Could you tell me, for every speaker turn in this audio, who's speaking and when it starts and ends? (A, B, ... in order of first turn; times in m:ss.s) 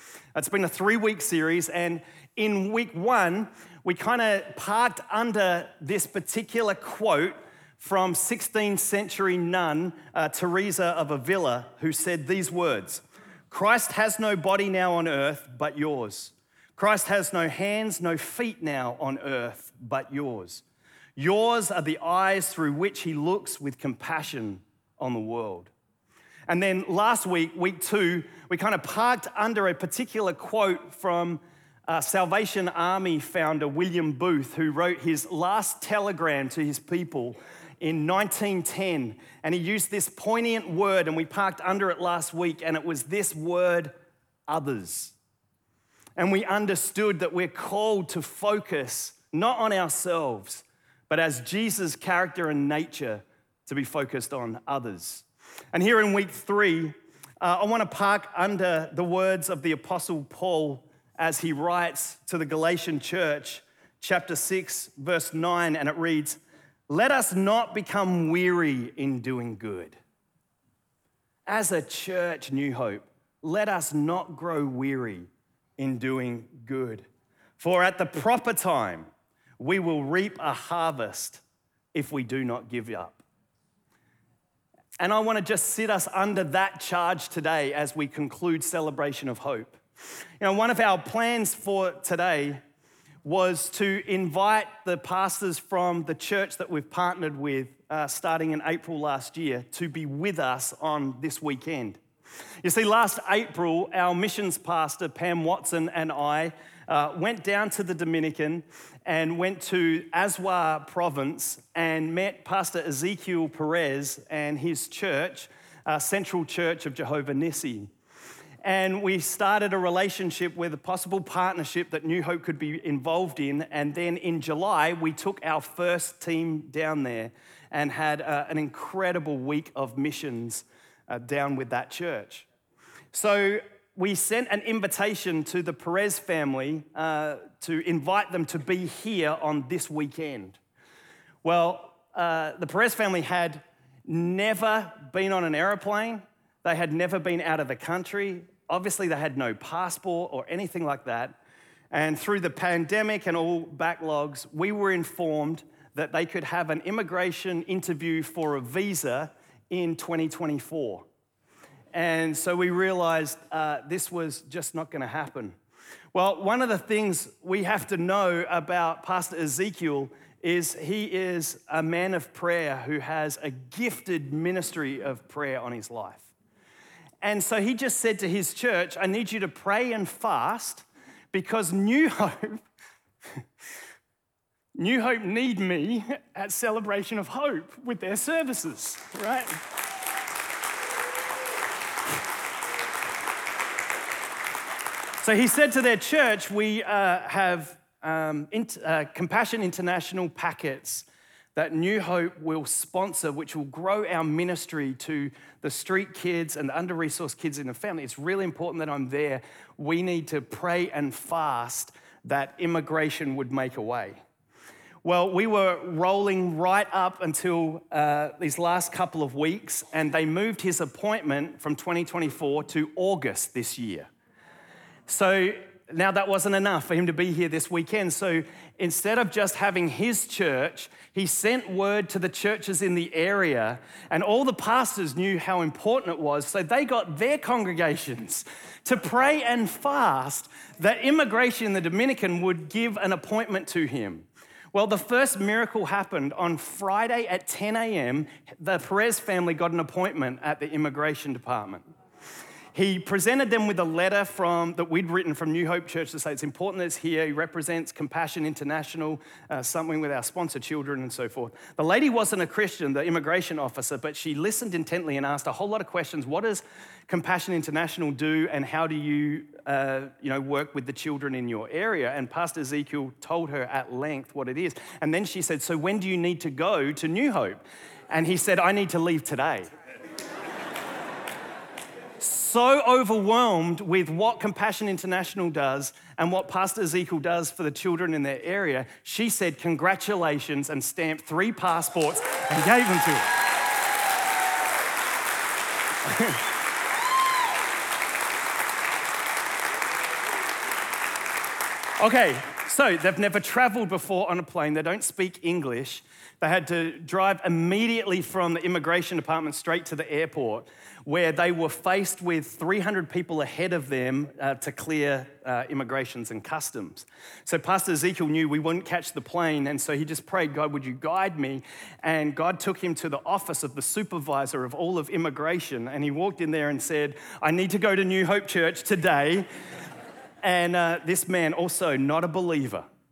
0:00.3-0:20.6 A
0:21.2-0:25.7 A
0:26.5-0:43.9 A
0:44.5-0:45.1 A
0:46.2-1:10.0 A
1:11.5-1:17.0 A
1:17.6-1:21.4 A
1:21.9-1:23.2 A
1:25.0-1:29.8 A
1:30.4-1:32.6 A
1:33.2-1:42.0 A
1:42.6-1:57.9 A
1:58.6-2:12.5 A
2:13.1-2:20.6 A
2:21.4-2:31.4 A
2:31.9-2:41.0 A
2:41.9-2:45.6 A
2:46.1-2:56.3 A
2:57.2-3:02.6 A
3:04.7-3:09.6 A
3:15.2-3:34.2 A
3:35.0-3:44.1 A
3:45.1-4:11.8 A
4:12.7-4:39.7 A
4:42.2-4:53.3 A
4:56.0-4:56.4 A
5:02.0-5:29.5 A
5:30.4-5:32.8 A